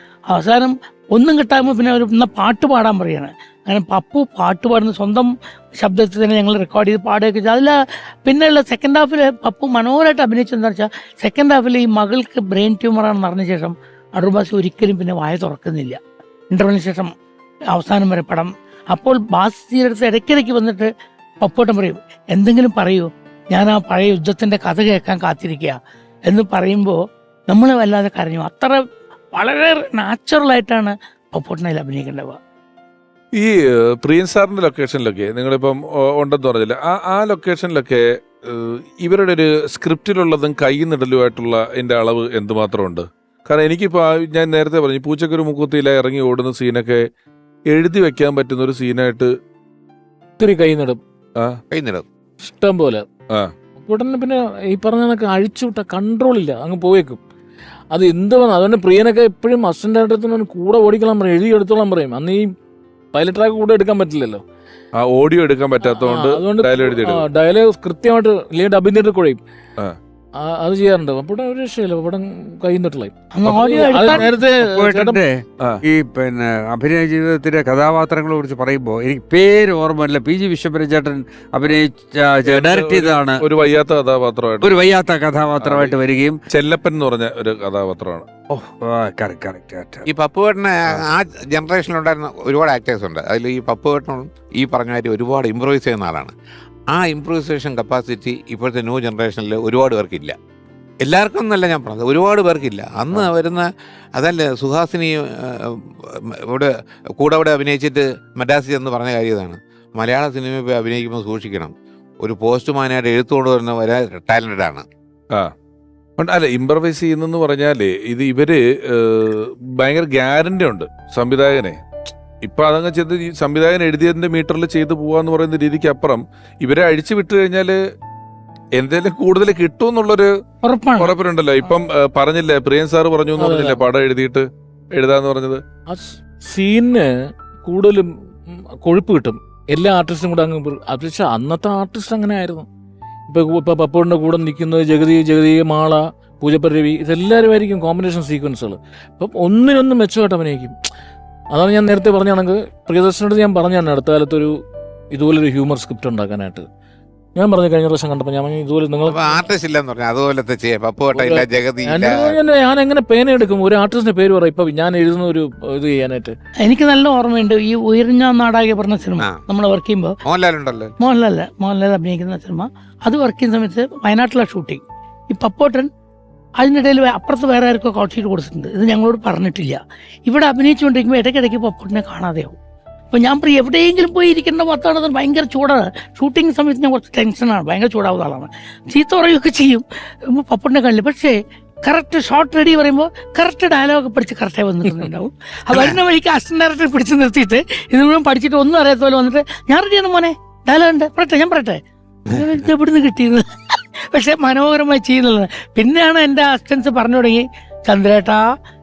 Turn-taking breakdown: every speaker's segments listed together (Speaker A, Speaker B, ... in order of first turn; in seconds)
Speaker A: 0.3-16.0, 16.5-17.1, 17.7-20.9, 21.4-27.0, 27.5-28.8, 29.3-32.4, 73.3-74.3, 130.6-131.1, 166.6-170.2, 171.0-175.9, 176.6-182.6, 183.1-203.4, 204.1-208.4
Speaker B: 33.3-47.0, 47.7-49.3, 65.0-67.2, 82.5-84.7, 85.6-86.0, 86.5-88.3, 116.2-121.8, 122.4-127.8, 128.8-130.3, 131.0-135.6
Speaker C: 50.4-51.0, 52.4-53.0, 53.8-57.2, 57.9-62.5, 63.1-64.4, 65.8-69.4, 70.4-75.2, 133.4-133.8, 135.9-137.1, 137.6-142.7, 143.3-150.8, 151.5-154.5, 155.1-156.7, 157.3-159.4, 161.2-166.3
Speaker D: 51.7-52.0, 90.1-96.3, 96.9-100.3, 101.0-114.8, 159.1-162.3, 170.2-170.9, 195.7-195.9, 202.3-202.5
Speaker E: 74.1-83.4, 84.6-86.4, 88.5-90.1